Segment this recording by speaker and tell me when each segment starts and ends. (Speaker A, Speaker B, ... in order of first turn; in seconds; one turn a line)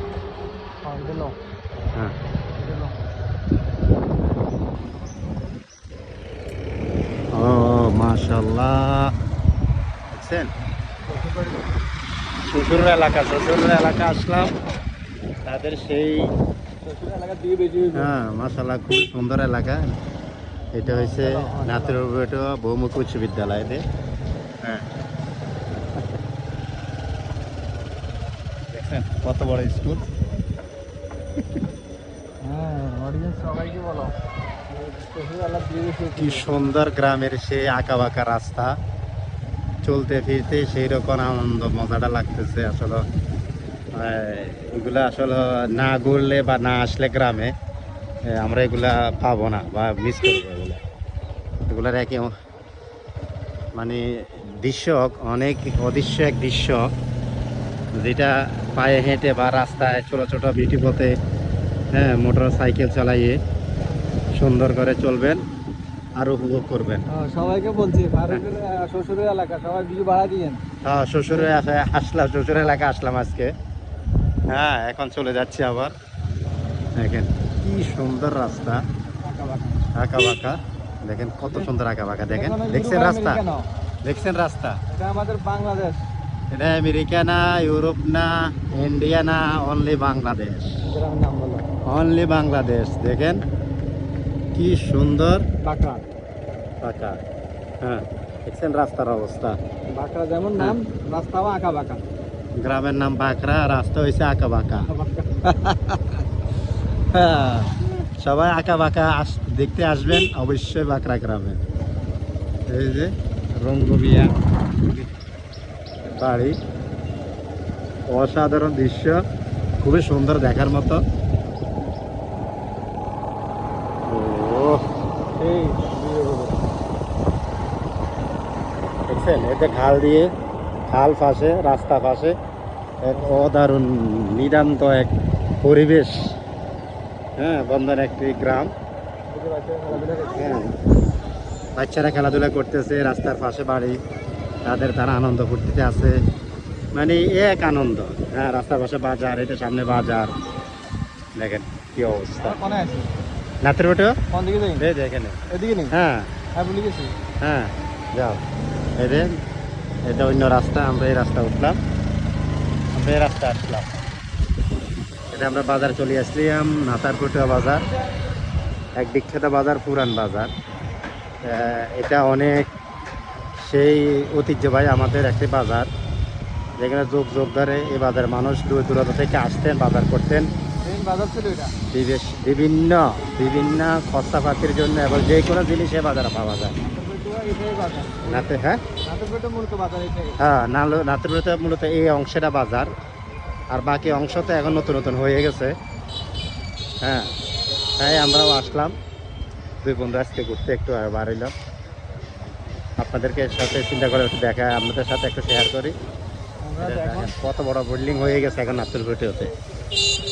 Speaker A: 0.8-1.4
Speaker A: 2.6-3.0
Speaker B: 7.3-9.1
Speaker B: 10.1-10.5
Speaker A: 11.1-11.6
Speaker B: 12.5-14.5
Speaker B: 15.5-16.3
Speaker A: 16.8-18.1
Speaker B: 17.9-19.9
Speaker B: 20.7-23.8
Speaker A: 20.8-22.0
Speaker B: 28.7-30.1
Speaker A: 32.4-34.1
Speaker A: 34.7-36.5
Speaker B: 36.2-38.7
Speaker B: 39.8-43.0
Speaker B: 44.0-47.5
Speaker B: 48.3-50.8
Speaker B: 51.7-52.3
Speaker B: 53.8-56.9
Speaker B: 58.0-61.1
Speaker B: 62.0-63.4
Speaker B: 64.4-65.4
Speaker B: 66.2-67.0
Speaker A: 67.1-70.6
Speaker B: 70.8-73.5
Speaker B: 74.5-75.9
Speaker B: 77.0-78.8
Speaker A: 79.2-79.8
Speaker B: 80.0-80.5
Speaker B: 81.0-83.4
Speaker A: 82.3-83.7
Speaker B: 84.0-84.8
Speaker A: 84.9-86.0
Speaker B: 86.5-90.8
Speaker A: 90.9-91.7
Speaker B: 91.8-93.4
Speaker B: 94.5-95.4
Speaker A: 95.6-96.0
Speaker B: 96.8-97.2
Speaker B: 97.8-99.6
Speaker A: 99.9-102.0
Speaker B: 102.6-104.9
Speaker A: 104.9-105.4
Speaker B: 105.5-106.2
Speaker B: 107.1-111.6
Speaker B: 112.7-114.3
Speaker B: 116.1-116.6
Speaker B: 118.1-119.2
Speaker B: 119.8-121.0
Speaker B: 124.1-124.8
Speaker A: 125.4-126.7
Speaker B: 129.1-130.3
Speaker B: 130.9-132.3
Speaker B: 133.0-135.1
Speaker B: 135.6-136.2
Speaker B: 137.4-138.7
Speaker A: 139.3-140.7
Speaker B: 140.3-140.7
Speaker B: 141.8-144.0
Speaker B: 144.7-146.2
Speaker B: 146.9-150.3
Speaker B: 151.4-152.6
Speaker A: 152.4-153.1
Speaker B: 153.6-154.2
Speaker A: 154.3-154.8
Speaker B: 154.8-155.4
Speaker A: 155.5-155.9
Speaker B: 155.9-156.3
Speaker A: 156.6-157.1
Speaker B: 157.4-158.4
Speaker B: 159.0-159.3
Speaker B: 160.1-161.8
Speaker B: 162.9-164.0
Speaker B: 165.3-167.8
Speaker B: 169.0-170.5
Speaker B: 171.4-172.7
Speaker B: 173.6-175.9
Speaker B: 176.8-180.5
Speaker A: 180.8-181.7
Speaker B: 181.9-186.8
Speaker A: 186.8-188.5
Speaker B: 188.2-188.8
Speaker A: 189.1-190.4
Speaker B: 190.4-192.9
Speaker B: 193.7-195.8
Speaker B: 197.0-197.3
Speaker B: 198.0-198.9
Speaker B: 199.8-201.5
Speaker B: 203.0-205.9
Speaker A: 206.7-207.4
Speaker B: 206.8-209.5